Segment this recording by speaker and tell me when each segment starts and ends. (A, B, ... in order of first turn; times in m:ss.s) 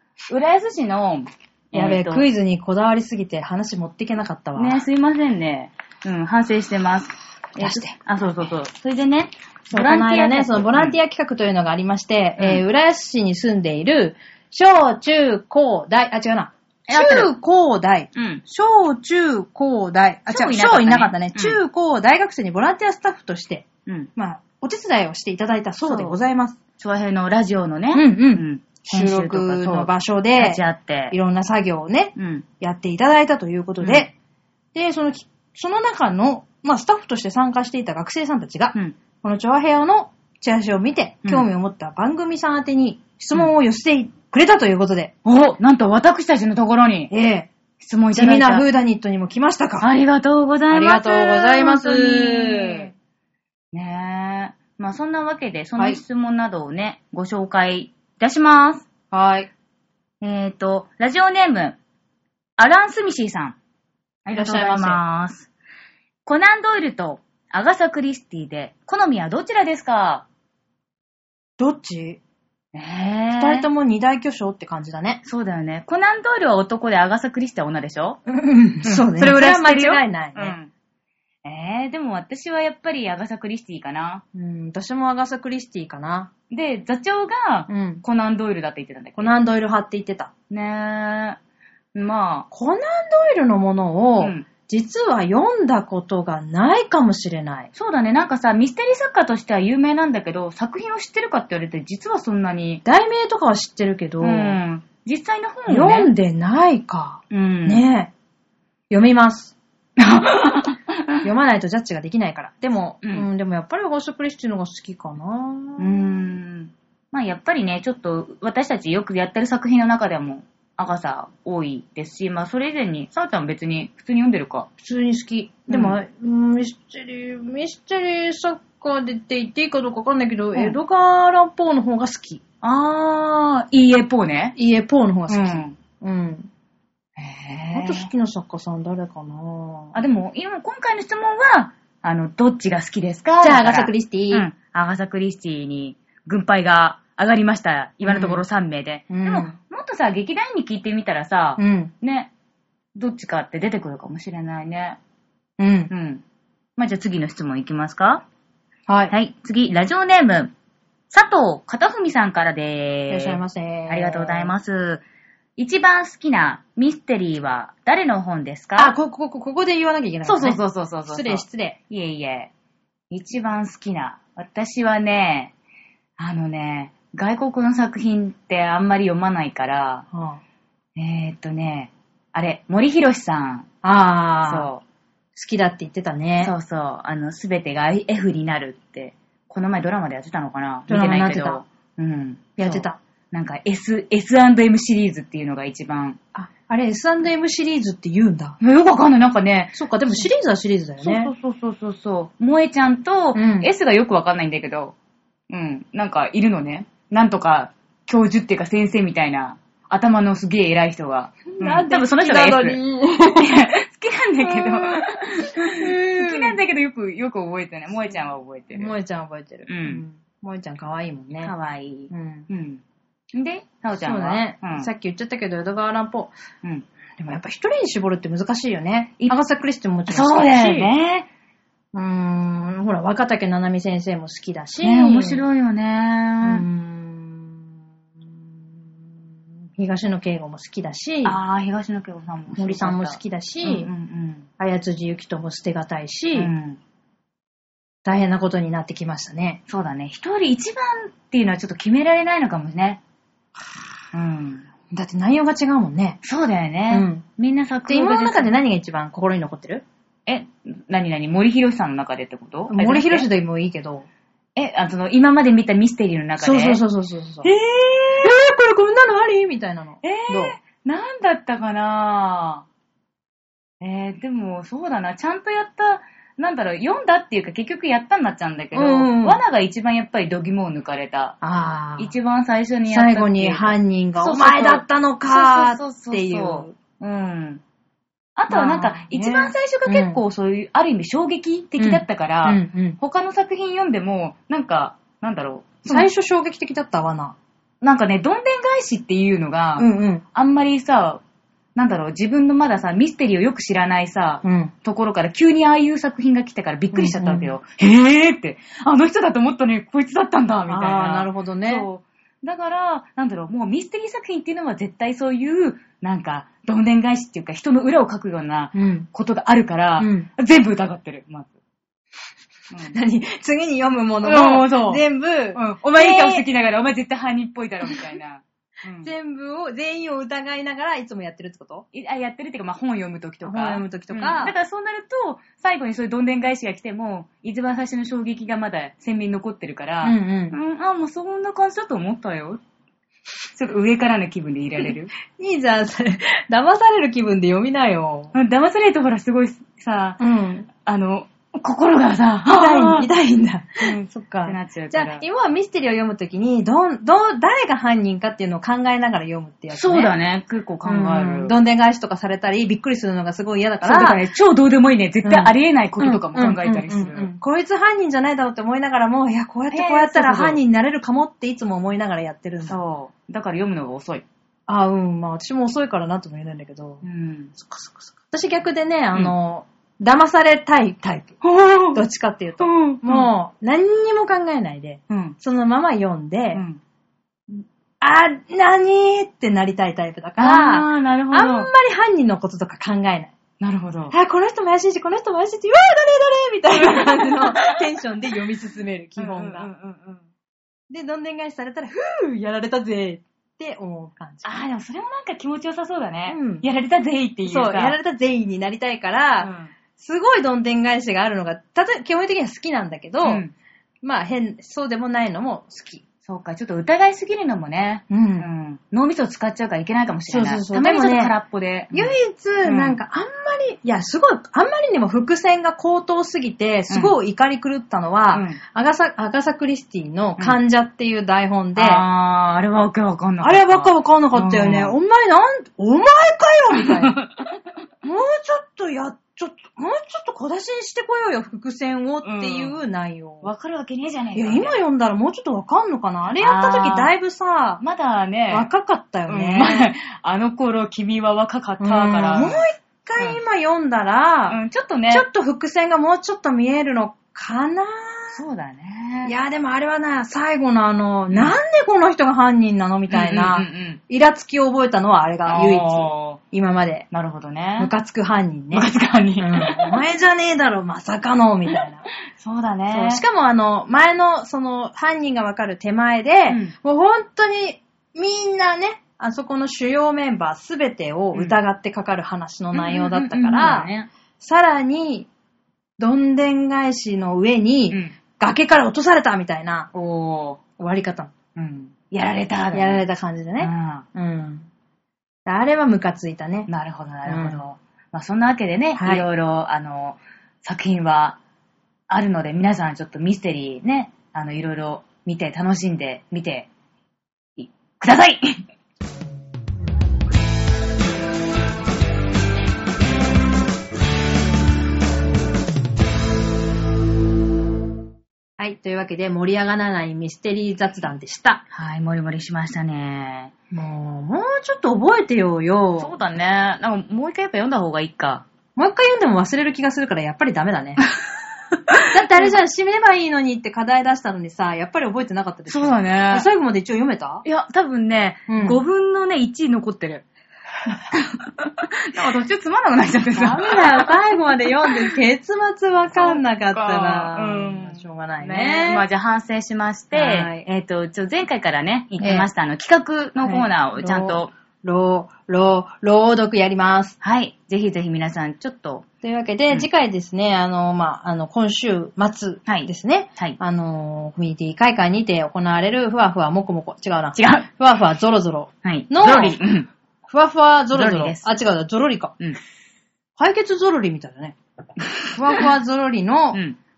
0:00.3-0:02.3 A
0:01.7-0:04.8 B
0:04.6-0:11.0 A
0:07.6-0:08.0 B
0:09.7-0:26.6 B
0:12.4-0:12.6 A
0:16.9-0:17.3 A
0:18.2-0:18.4 A
0:20.3-0:21.6 A
0:23.9-0:24.1 A
0:25.8-0:26.2 A
0:26.8-0:31.2 A
0:27.9-0:34.1 B
0:32.2-0:32.5 A
0:33.8-0:34.1 A
0:34.7-0:45.1 B
0:45.2-0:47.1 A
0:47.1-0:47.5 B
0:47.8-0:48.7 A
0:48.2-0:49.9 B
0:49.8-0:52.9 A
0:50.7-0:52.9 B
0:53.7-0:58.9 A
0:59.1-0:59.5 B
1:00.2-1:01.8 A
1:02.6-1:03.6 A
1:04.2-1:05.5 A
1:04.3-1:05.0 B
1:06.3-1:10.3 A
1:11.6-1:12.2 B
1:12.7-1:13.7 A
1:13.3-1:15.2 B
1:15.2-1:18.2 A
1:18.3-1:20.6 B
1:18.8-1:20.7 A
1:21.4-1:24.2 A
1:24.4-1:26.3 B
1:26.5-1:29.4 A
1:27.7-1:28.0 B
1:29.2-1:30.3 B
1:30.5-1:31.4 A
1:32.0-1:32.5 A
1:32.5-1:37.7 B
1:34.2-1:34.5 A
1:37.7-1:42.8 A
1:42.8-1:44.6 B
1:44.2-1:46.1 A
1:45.7-1:48.1 B
1:47.3-1:47.8 A
1:48.9-1:49.6 B
1:50.0-1:51.3 A
1:51.2-1:55.9 B
1:55.8-2:04.7 A
2:04.8-2:12.4 B
2:05.7-2:06.0 A
2:10.5-2:10.8 A
2:12.6-2:14.6 A
2:14.6-2:16.5 B
2:15.3-2:15.8 A
2:17.2-2:18.1 A
2:17.7-2:20.0 B
2:19.9-2:32.3 A
2:23.4-2:24.5 B
2:28.0-2:28.4 B
2:29.1-2:29.6 B
2:31.6-2:31.9 B
2:33.0-2:35.0 A
2:35.6-2:35.9 B
2:35.9-2:36.2 A
2:36.8-2:38.2 A
2:38.9-2:39.1 B
2:39.1-2:40.5 A
2:41.1-2:45.0 A
2:43.1-2:44.5 B
2:45.6-2:49.0 A
2:48.8-2:51.8 B
2:50.2-2:52.5 A
2:53.1-2:55.5 A
2:56.2-3:00.0 A
3:00.1-3:00.4 B
3:01.0-3:03.7 A
3:03.8-3:04.7 B
3:04.4-3:04.8 A
3:05.4-3:06.5 B
3:06.4-3:16.2 A
3:10.9-3:11.6 B
3:12.6-3:13.0 B
3:16.3-3:18.6 B
3:18.6-3:20.3 A
3:19.8-3:21.3 B
3:21.0-3:25.0 A
3:23.4-3:23.7 B
3:25.5-3:32.8 A
3:31.5-3:33.5 B
3:33.4-3:38.9 A
3:34.5-3:35.0 B
3:35.5-3:36.6 B
3:38.7-3:41.5 B
3:39.7-3:40.0 A
3:41.4-3:42.8 A
3:42.1-3:42.5 B
3:43.3-3:44.9 A
3:43.9-3:46.3 B
3:47.2-3:50.9 B
3:50.1-3:51.3 A
3:51.9-3:55.4 B
3:54.8-3:56.7 A
3:56.4-3:57.7 B
3:59.8-4:01.4 B
4:01.2-4:04.5 A
4:02.6-4:03.9 B
4:04.6-4:06.5 B
4:06.4-4:06.8 A
4:08.0-4:09.6 B
4:09.7-4:13.0 A
4:14.1-4:14.7 A
4:14.9-4:16.2 B
4:16.2-4:18.6 A
4:16.9-4:17.2 B
4:17.9-4:19.8 B
4:20.3-4:23.3 A
4:22.7-4:24.1 B
4:24.6-4:26.8 A
4:26.4-4:27.5 B
4:27.4-4:28.3 A
4:28.2-4:30.6 B
4:30.0-4:32.7 A
4:33.8-4:41.4 A
4:38.7-4:39.4 B
4:41.4-4:42.1 B
4:42.0-4:47.6 A
4:42.9-4:46.8 B
4:48.4-4:56.1 A
4:48.5-4:50.2 B
4:51.8-4:53.0 B
4:55.8-4:57.4 B
4:57.8-5:01.2 A
4:59.8-5:00.2 B
5:01.8-5:21.5 A
5:04.4-5:04.7 B
5:06.9-5:07.6 B
5:10.7-5:11.9 B
5:18.7-5:19.1 B
5:20.0-5:20.3 B
5:22.7-5:23.0 A
5:22.9-5:26.4 B
5:24.2-5:29.1 A
5:29.0-5:31.8 B
5:31.9-5:42.6 A
5:33.4-5:34.5 B
5:40.0-5:40.6 B
5:43.5-5:45.1 A
5:45.4-5:48.4 B
5:48.3-5:50.2 A
5:50.2-5:50.7 B
5:50.8-5:53.1 A
5:52.5-6:00.1 B
5:53.8-5:55.3 A
5:59.7-6:01.6 A
6:00.8-6:04.2 B
6:03.8-6:07.3 A
6:05.2-6:12.8 B
6:09.7-6:10.6 A
6:12.7-6:14.2 A
6:14.7-6:17.0 B
6:17.0-6:17.5 A
6:17.6-6:21.4 B
6:21.4-6:22.0 A
6:21.9-6:26.6 B
6:22.6-6:23.3 A
6:25.1-6:25.4 A
6:26.5-6:26.8 A
6:28.0-6:33.3 B
6:30.4-6:31.7 A
6:33.6-6:34.2 A
6:34.1-6:39.7 B
6:36.7-6:37.8 A
6:39.2-6:40.2 A
6:40.9-6:44.5 B
6:44.4-6:48.0 A
6:46.3-6:46.7 B
6:47.4-6:53.4 B
6:49.4-6:49.7 A
6:53.2-6:53.5 A
6:54.0-6:56.0 B
6:56.3-7:03.0 A
6:58.1-6:58.5 B
7:00.3-7:01.4 B
7:01.9-7:12.0 B
7:08.3-7:08.6 A
7:11.8-7:15.0 A
7:13.4-7:17.2 B
7:16.8-7:17.6 A
7:18.0-7:23.5 B
7:22.2-7:22.8 A
7:23.4-7:24.8 A
7:24.4-7:27.8 B
7:26.3-7:27.1 A
7:27.8-7:28.7 A
7:28.5-7:29.9 B
7:29.3-7:32.6 A
7:31.8-7:34.6 B
7:34.5-7:35.3 A
7:35.1-7:38.4 B
7:38.3-7:39.3 A
7:39.2-7:47.1 B
7:41.3-7:41.6 A
7:43.1-7:44.0 A
7:45.5-7:46.4 A
7:47.1-7:47.9 A
7:47.8-7:48.9 B
7:48.7-7:50.0 A
7:49.4-7:52.1 B
7:52.3-7:53.2 A
7:52.9-8:03.9 B
7:56.5-7:56.8 A
8:01.3-8:01.6 A
8:02.7-8:04.1 A
8:04.4-8:05.3 B
8:06.0-8:09.9 B
8:07.9-8:08.2 A
8:09.9-8:10.6 A
8:10.8-8:11.3 B
8:11.6-8:13.0 A
8:12.7-8:14.7 B
8:13.6-8:14.0 A
8:15.5-8:16.7 B
8:16.7-8:21.4 A
8:17.3-8:17.6 B
8:19.0-8:19.3 B
8:22.1-8:26.7 A
8:27.6-8:28.4 A
8:38.6-8:41.6 B
8:41.7-8:43.5 A
8:43.7-8:46.2 B
8:46.0-8:48.4 A
8:48.8-8:51.0 B
8:51.7-8:52.5 A
8:52.1-8:57.4 B
8:55.7-8:56.5 A
8:57.4-9:00.2 A
8:58.5-8:58.8 B
9:01.1-9:04.2 A
9:03.4-9:09.0 B
9:04.8-9:05.1 A
9:06.1-9:14.5 A
9:10.1-9:10.6 B
9:12.2-9:12.5 B
9:13.4-9:17.2 B
9:17.2-9:19.1 A
9:19.2-9:29.6 B
9:22.7-9:23.6 A
9:27.4-9:27.7 A
9:28.8-9:29.9 A
9:30.3-9:32.3 B
9:30.9-9:31.5 A
9:33.4-9:34.6 B
9:35.2-9:35.7 A
9:35.3-9:36.6 B